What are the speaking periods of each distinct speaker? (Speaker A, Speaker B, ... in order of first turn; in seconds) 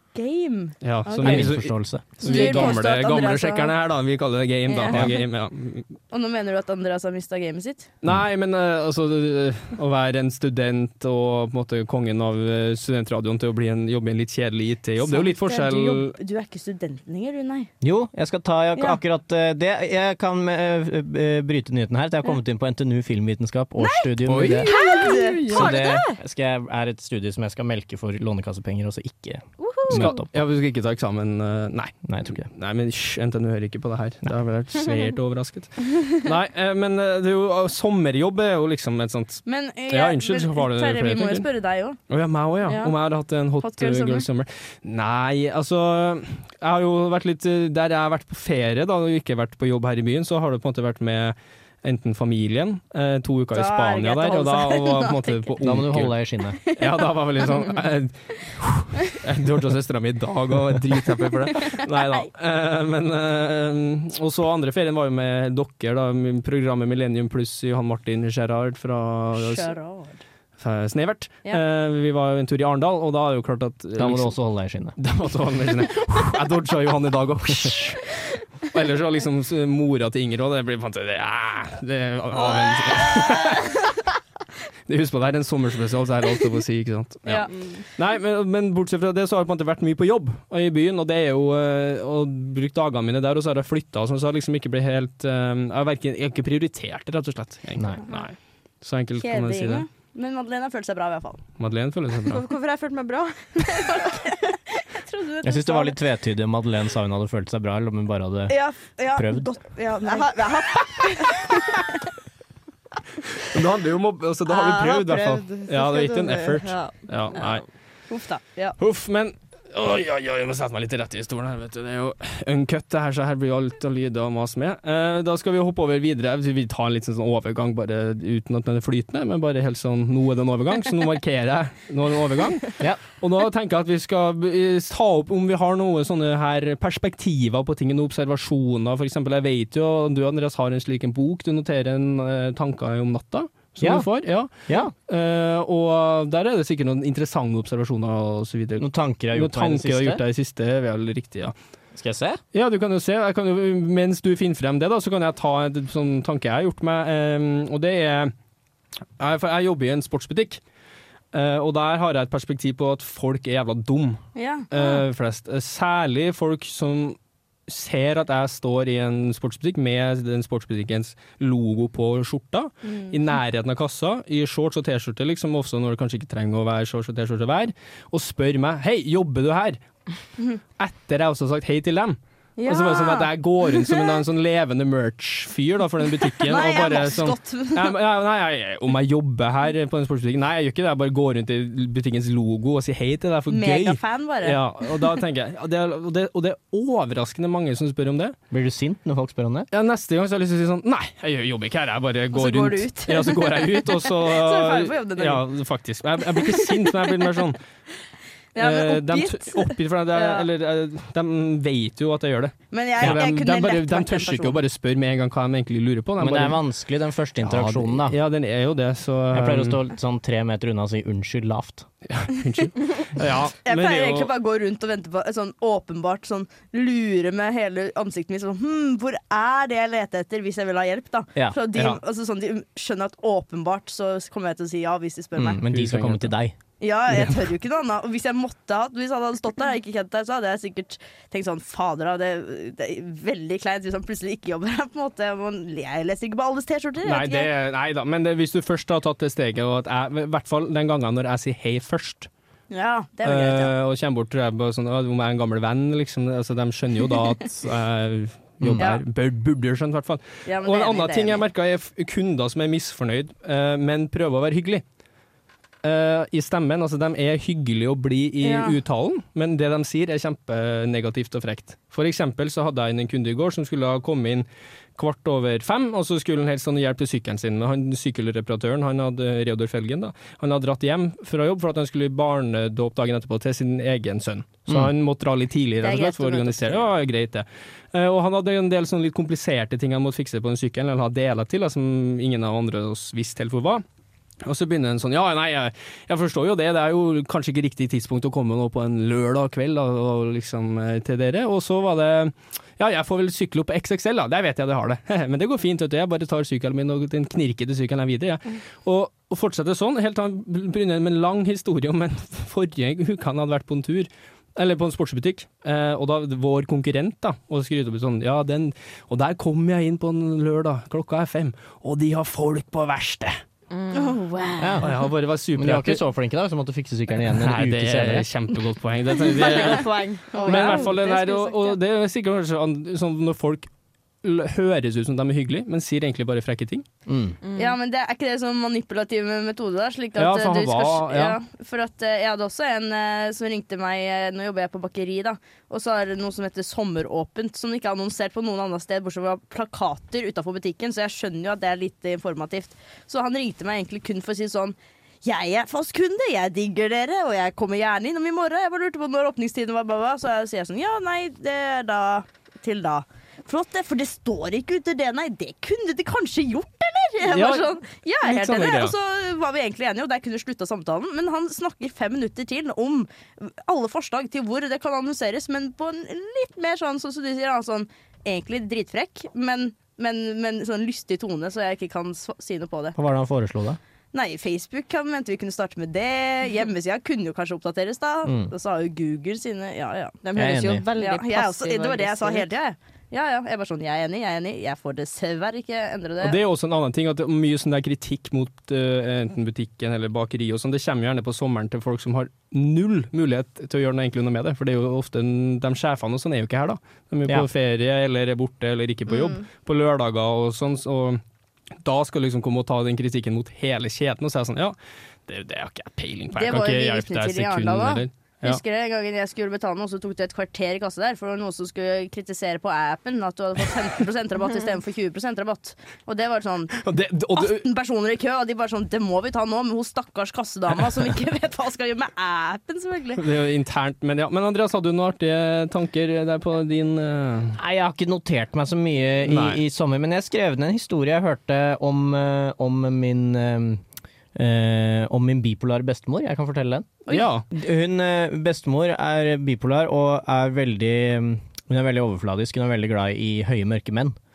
Speaker A: 0.1-1.6, 2.2-3.7, 4.7-5.1, 6.1-7.9, 15.0-17.7, 23.8-25.9, 29.6-30.1, 39.5-42.0, 42.6-42.9, 43.6-44.2, 53.5-55.5, 56.6-57.5, 61.5-62.3, 69.3-70.2, 82.7-83.6, 87.2-87.5, 99.2-101.4, 103.6-106.0, 108.5-111.8, 118.1-118.8, 164.3-165.0, 172.9-173.1, 182.6-184.0, 186.4-187.9, 193.5-195.2, 202.3-205.4, 206.3-206.9, 208.5-210.4, 212.7-214.6, 223.6-235.6, 236.8-247.5, 252.7-253.7, 260.4-261.4, 268.4-268.8, 285.8-286.8, 323.9-324.8, 329.3-331.4, 337.6-382.9, 384.1-390.2, 391.0-396.4, 409.1-409.4, 416.3-426.8, 427.3-433.2
Speaker B: 0.8-5.8, 8.0-16.1, 24.2-24.7, 29.9-41.5, 42.1-56.2, 56.7-69.7, 70.6-74.3, 75.0-83.9, 84.9-99.8, 101.6-102.4, 113.3-117.6, 118.8-144.5, 145.1-151.5, 152.5-158.3, 159.2-160.6, 161.3-179.8, 180.8-198.3, 199.7-207.6, 208.6-216.6, 217.4-219.8, 222.1-224.3, 231.7-232.0, 235.7-236.3, 237.1-237.4, 247.0-252.3, 253.2-264.8, 265.8-274.4, 275.0-293.8, 294.4-323.4, 324.8-326.0, 327.4-333.7, 334.2-336.8, 340.2-341.4, 367.2-368.9, 396.2-411.2, 411.8-414.8, 415.3-418.6, 426.7-427.6, 433.2-437.6, 439.2-439.6, 447.1-447.4
Speaker C: 1.2-2.8, 17.8-24.7, 25.5-30.3, 32.0-32.4, 55.6-56.6, 74.0-75.0, 97.8-98.0, 105.4-108.5, 109.1-109.5, 143.8-144.1, 144.7-144.9, 148.8-150.2, 151.9-152.4, 198.5-199.7, 216.2-218.2, 219.3-221.9, 235.3-236.5, 258.6-258.9, 324.6-325.0, 325.5-328.3, 337.1-337.4, 382.9-383.8, 388.2-388.5, 390.4-390.8, 437.6-443.8, 444.3-447.0, 447.5-454.1
Speaker D: 24.7-26.2, 87.5-87.8, 102.2-104.0, 110.0-111.5, 114.5-117.6, 323.7-324.1, 329.3-331.6, 337.4-337.7, 390.2-392.4